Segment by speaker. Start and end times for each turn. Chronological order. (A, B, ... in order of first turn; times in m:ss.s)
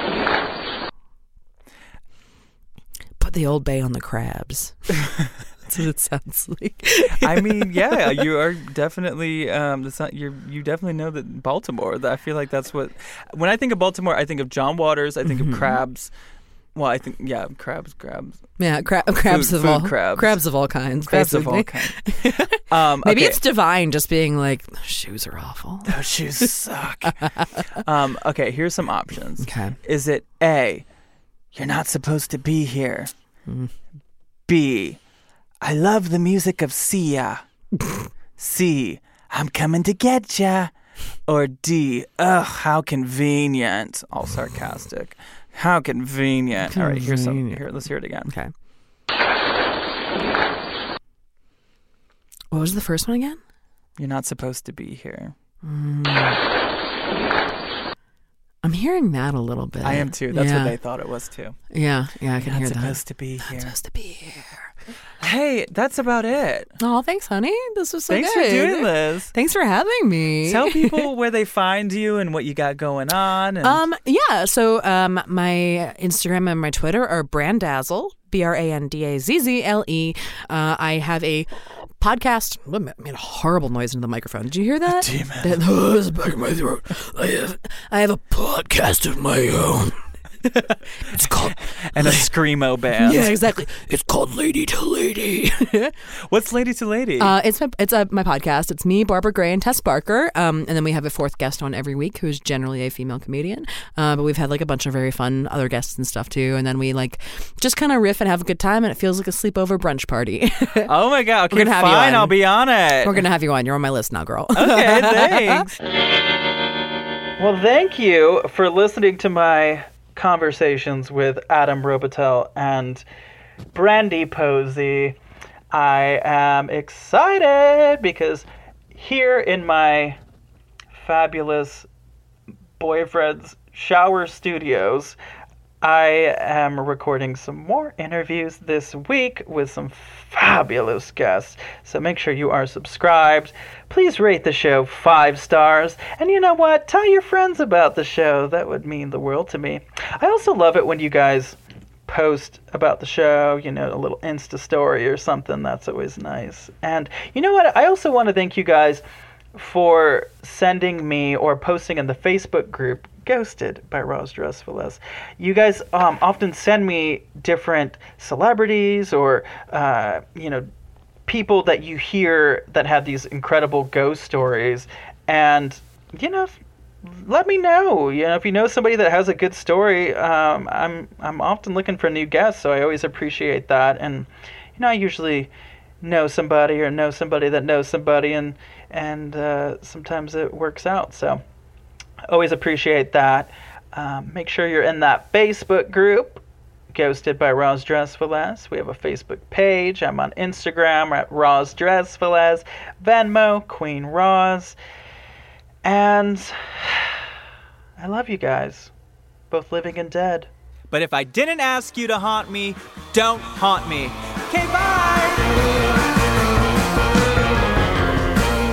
0:03.2-0:05.0 A
0:05.6-0:08.2 A
0:07.2-0:16.1 B
0:15.2-0:15.8 A
0:16.7-0:18.4 B
0:18.6-0:26.5 A
0:19.2-0:20.4 B
0:21.1-0:23.4 B
0:25.8-0:30.8 B
0:27.2-0:27.5 A
0:29.4-0:29.8 A
0:31.5-0:33.1 B
0:33.5-0:33.7 A
0:34.5-0:35.0 B
0:35.6-0:37.4 B
0:38.4-0:40.7 B
0:41.3-0:48.3 B
0:46.7-0:47.6 A
0:48.2-0:48.5 A
0:52.5-0:53.4 A
0:54.0-0:55.3 B
0:55.6-0:56.4 A
0:58.6-1:00.8 A
0:59.8-1:01.6 B
1:01.7-1:04.7 A
1:02.4-1:03.7 B
1:05.2-1:06.7 B
1:06.8-1:11.0 A
1:08.1-1:09.3 B
1:10.4-1:13.8 B
1:13.6-1:32.3 A
1:24.9-1:25.6 B
1:31.6-1:33.3 B
1:32.9-1:36.0 A
1:36.2-1:37.3 B
1:37.2-1:50.9 A
1:50.8-1:53.2 B
1:51.5-1:52.3 A
1:53.0-1:55.6 A
1:54.5-1:55.8 B
1:57.4-2:03.0 C
2:03.7-2:05.2 C
2:05.7-2:10.2 C
2:10.9-2:11.9 C
2:12.8-2:15.2 C
2:15.8-2:39.0 C
2:39.5-2:50.7 C
2:51.2-3:05.5 C
3:06.0-3:11.4 C
3:12.3-3:24.8 C
3:25.8-3:27.2 C
3:28.0-3:28.9 C
3:29.5-3:30.5 C
3:30.9-3:35.7 B